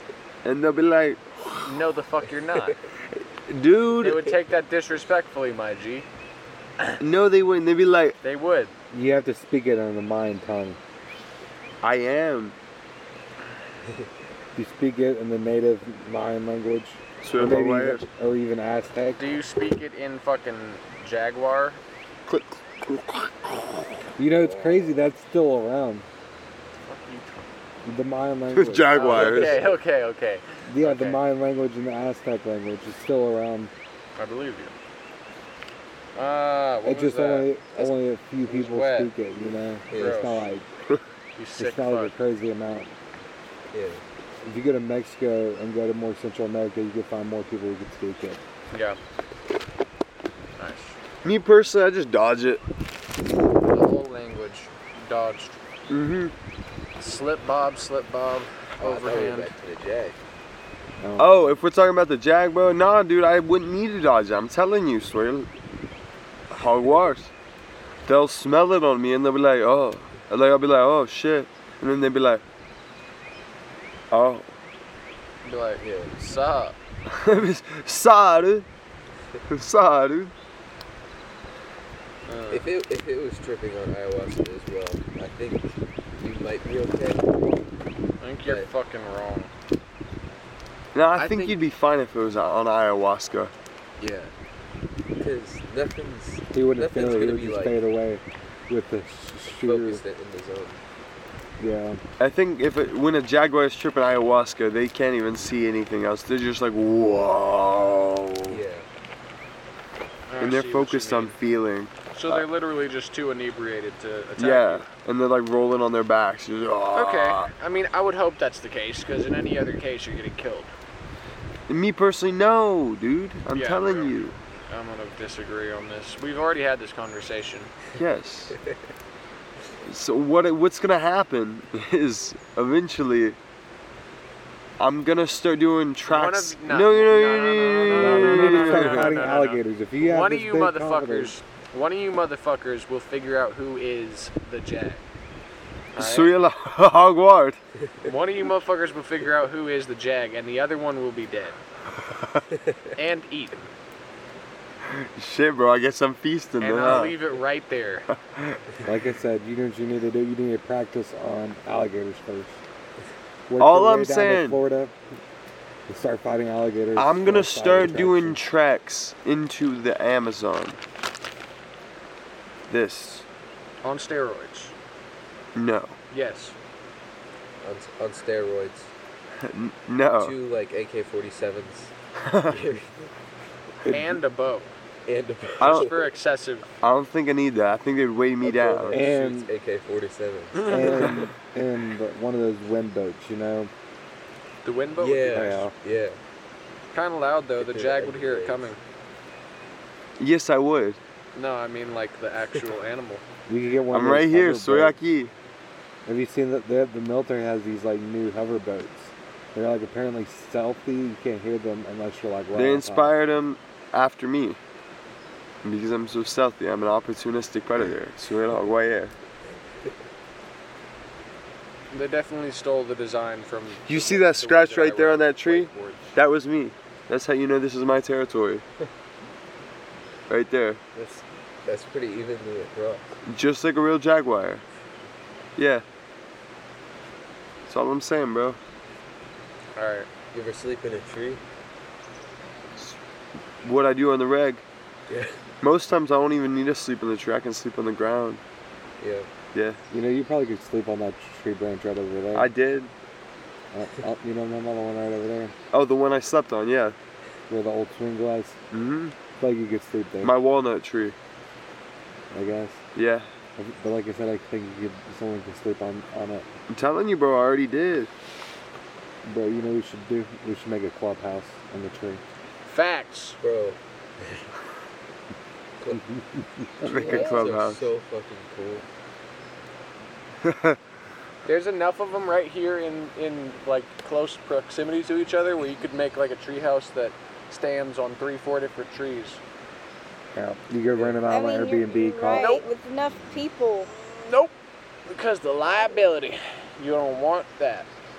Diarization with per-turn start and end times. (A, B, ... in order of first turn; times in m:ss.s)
0:00.4-0:01.8 A
0:01.6-0:02.8 B
0:03.5-0:04.3 A
0:04.0-0:06.1 B
0:07.0-0:08.2 A
0:08.2-0:08.7 B
0:08.9-0:10.8 C
0:11.8-0:12.6 A
0:14.6-0:19.3 C
0:17.2-0:18.0 A
0:19.2-0:21.8 B
0:22.3-0:24.0 A
0:24.2-0:26.1 C
0:26.9-0:27.5 B
0:27.8-0:29.4 C
0:28.5-0:29.6 A
0:28.9-0:31.2 B
0:30.7-0:33.7 C
0:34.2-0:34.7 B
0:36.1-0:38.0 B
0:36.8-0:40.7 C
0:38.4-0:39.1 B
0:39.9-0:40.3 D
0:39.9-0:40.4 B
0:41.4-0:42.1 B
0:41.6-0:42.9 C
0:43.7-0:44.0 D
0:44.4-0:48.4 C
0:48.7-0:49.0 B
0:50.6-0:51.0 B
0:51.2-0:52.6 A
0:53.7-0:55.6 B
0:55.9-0:56.3 A
0:57.0-0:59.5 B
0:58.8-1:00.2 D
1:01.0-1:01.6 C
1:01.2-1:05.5 A
1:06.5-1:07.3 A
1:08.1-1:12.4 A
1:14.1-1:14.5 A
1:15.4-1:16.8 B
1:15.8-1:16.2 D
1:17.1-1:18.7 A
1:19.5-1:20.3 A
1:22.3-1:22.7 B
1:22.5-1:27.3 D
1:28.2-1:29.5 B
1:30.9-1:33.5 A
1:31.1-1:31.6 D
1:34.0-1:34.3 D
1:35.2-1:37.8 D
1:36.5-1:40.0 C
1:39.6-1:40.8 D
1:41.6-1:42.0 C
1:42.2-1:48.6 A
1:48.5-1:48.9 D
1:50.3-1:51.4 B
1:50.4-1:52.4 A
1:52.1-1:54.9 B
1:54.4-1:57.5 A
1:56.9-2:00.7 B
2:01.7-2:04.4 A
2:03.5-2:04.1 B
2:04.7-2:07.7 B
2:08.0-2:08.6 A
2:09.8-2:13.4 A
2:14.8-2:19.1 A
2:16.1-2:25.0 B
2:17.9-2:21.3 C
2:25.9-2:26.3 B
2:26.0-2:27.6 A
2:28.0-2:31.6 B
2:32.1-2:32.4 A
2:33.0-2:33.7 B
2:34.8-2:37.2 A
2:36.6-2:38.1 B
2:38.1-2:38.6 A
2:38.8-2:42.6 C
2:43.5-2:44.9 C
2:43.6-2:44.6 A
2:45.9-2:48.4 C
2:47.0-2:50.8 A
2:52.7-2:53.3 A
2:53.8-2:54.7 B
2:55.6-2:56.0 A
2:56.1-2:56.6 B
2:57.6-2:58.9 D
2:59.4-3:00.4 A
3:00.2-3:01.9 D
3:02.2-3:02.6 A
3:02.5-3:03.1 D
3:03.9-3:04.7 B
3:05.1-3:06.1 D
3:05.6-3:05.9 A
3:05.6-3:06.7 B
3:06.8-3:09.0 A
3:08.4-3:11.1 D
3:08.9-3:09.5 C
3:10.6-3:11.3 B
3:10.7-3:13.7 C
3:14.6-3:15.6 B
3:15.0-3:16.2 D
3:15.3-3:15.7 C
3:16.9-3:18.8 B
3:17.6-3:18.7 D
3:20.2-3:21.0 A
3:21.4-3:23.2 B
3:23.5-3:25.0 C
3:23.9-3:25.3 A
3:26.1-3:33.2 C
3:32.6-3:34.6 A
3:35.6-3:39.1 A
3:41.9-3:46.2 B
3:43.9-3:48.6 A
3:50.3-3:50.8 A
3:51.0-3:53.2 D
3:53.3-3:54.6 A
3:55.6-3:55.8 A
3:57.7-3:58.6 A
3:59.8-4:00.1 B
4:00.3-4:01.4 D
4:03.6-4:04.6 A
4:05.1-4:05.4 D
4:05.6-4:08.4 A
4:09.0-4:09.3 D
4:09.9-4:12.5 C
4:12.3-4:12.9 A
4:13.7-4:15.5 C
4:15.7-4:17.0 A
4:17.5-4:18.6 C
4:18.7-4:19.2 A
4:19.4-4:20.4 C
4:20.2-4:21.2 A
4:22.3-4:22.9 C
4:23.0-4:23.3 A
4:23.6-4:26.5 C
4:26.7-4:28.1 A
4:29.2-4:32.2 C
4:32.6-4:33.4 B
4:33.4-4:34.5 D
4:35.9-4:37.3 C
4:36.8-4:38.9 D
4:36.8-4:37.8 A
4:37.0-4:37.5 E
4:40.4-4:40.8 A
4:41.4-4:49.4 B
4:50.4-4:52.6 C
4:51.3-4:53.9 E
4:52.3-4:52.7 B
4:54.1-4:54.5 B
4:55.1-4:57.9 B
4:55.7-4:56.1 E